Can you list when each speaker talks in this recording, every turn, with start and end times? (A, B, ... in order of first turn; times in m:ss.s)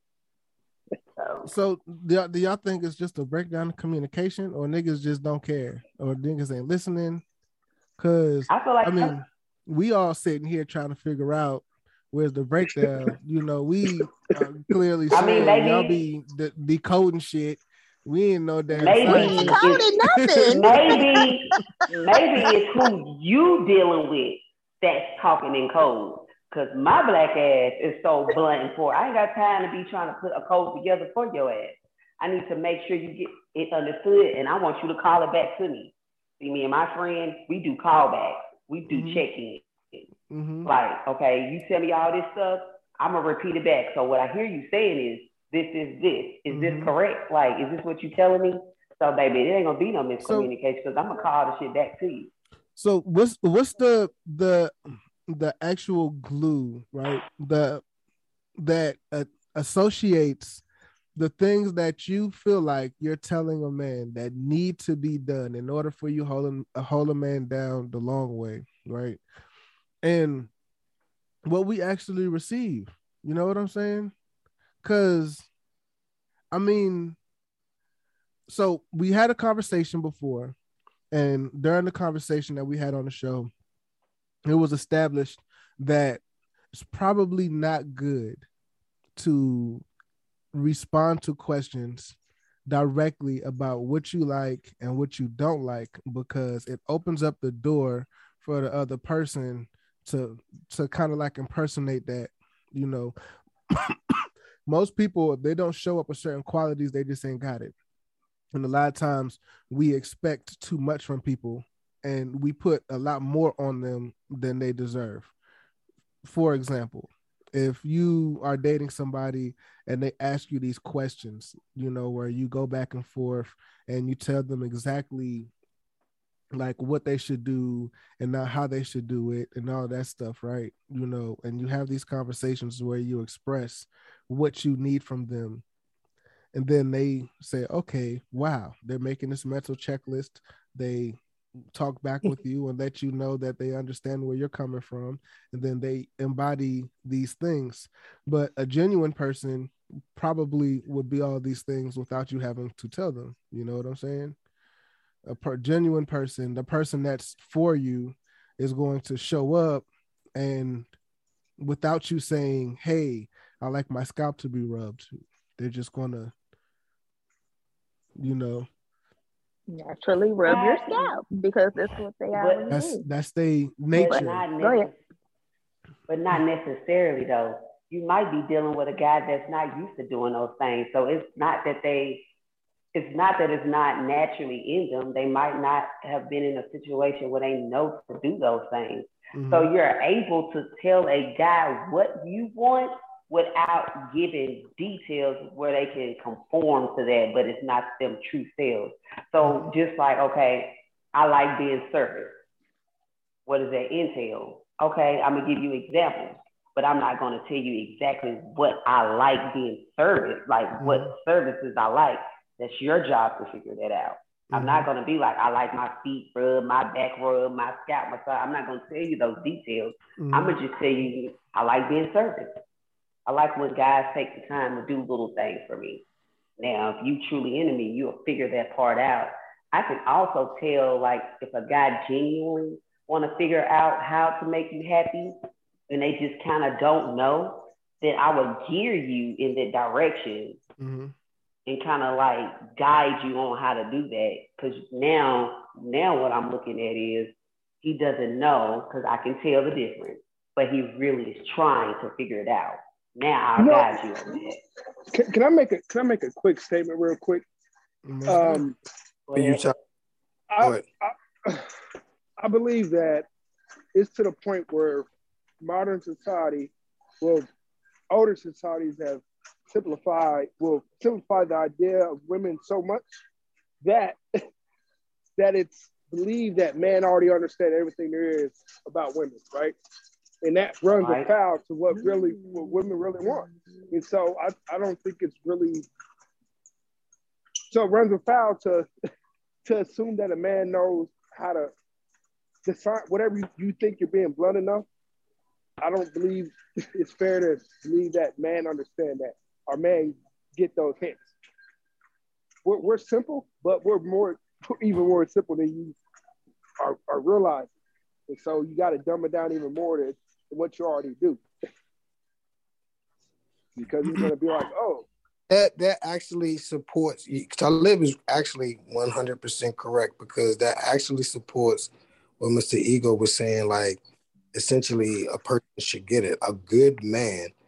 0:01.2-0:01.5 A
0:01.4-0:07.2 B
0:08.0-0:20.6 B
0:08.5-0:09.1 A
0:15.1-0:16.0 A
0:18.7-0:19.9 A
0:19.0-0:21.7 C
0:20.5-0:40.0 A
0:38.9-0:39.2 B
0:40.3-0:40.7 B
0:40.6-0:52.3 A
0:46.5-0:46.9 B
0:50.2-0:50.5 B
0:52.8-0:54.7 B
0:55.3-0:57.8 B
0:58.6-1:00.6 B
1:01.2-1:09.2 B
1:10.0-1:10.5 B
1:11.4-1:14.1 B
1:14.8-1:15.5 B
1:16.5-1:17.2 B
1:18.5-1:20.5 B
1:21.1-1:23.5 B
1:24.4-1:26.2 B
1:26.7-1:28.4 B
1:29.2-1:29.8 B
1:30.5-1:32.2 B
1:32.7-1:43.1 B
1:43.7-1:47.7 B
1:48.5-1:55.3 B
1:56.2-2:05.5 B
2:06.5-2:15.6 B
2:16.5-2:21.2 B
2:21.7-2:34.3 B
2:35.2-2:40.9 B
2:41.6-2:46.3 B
2:48.2-2:48.7 B
2:49.7-2:53.0 C
2:50.4-2:51.2 A
2:52.3-2:52.6 A
2:52.7-2:54.4 B
2:53.9-2:54.9 C
2:54.0-2:55.0 A
2:56.1-3:02.2 A
3:02.9-3:22.4 A
3:09.3-3:09.7 B
3:19.4-3:19.7 B
3:23.5-3:42.5 A
3:30.8-3:31.1 B
3:34.5-3:34.9 B
3:40.2-3:40.6 B
3:43.3-3:46.0 A
3:46.6-3:55.4 A
3:55.9-4:00.6 A
4:00.8-4:01.1 B
4:01.7-4:14.6 A
4:13.6-4:14.0 D
4:15.1-4:17.4 D
4:18.0-4:18.7 B
4:18.3-4:18.8 D
4:19.3-4:19.7 A
4:19.3-4:19.7 E
4:20.5-4:21.7 D
4:22.4-4:23.2 D
4:23.9-4:25.1 D
4:25.6-4:27.5 D
4:28.1-4:33.2 D
4:33.8-4:34.2 D
4:35.4-4:39.8 D
4:40.4-4:45.9 D
4:41.0-4:41.3 A
4:47.7-4:48.9 D
4:49.6-4:51.7 D
4:52.6-4:54.8 D
4:55.8-5:01.3 D
5:02.6-5:06.0 D
5:06.8-5:07.7 D
5:08.3-5:11.4 D
5:13.8-5:15.0 D
5:15.5-5:24.0 E
5:24.5-5:27.5 E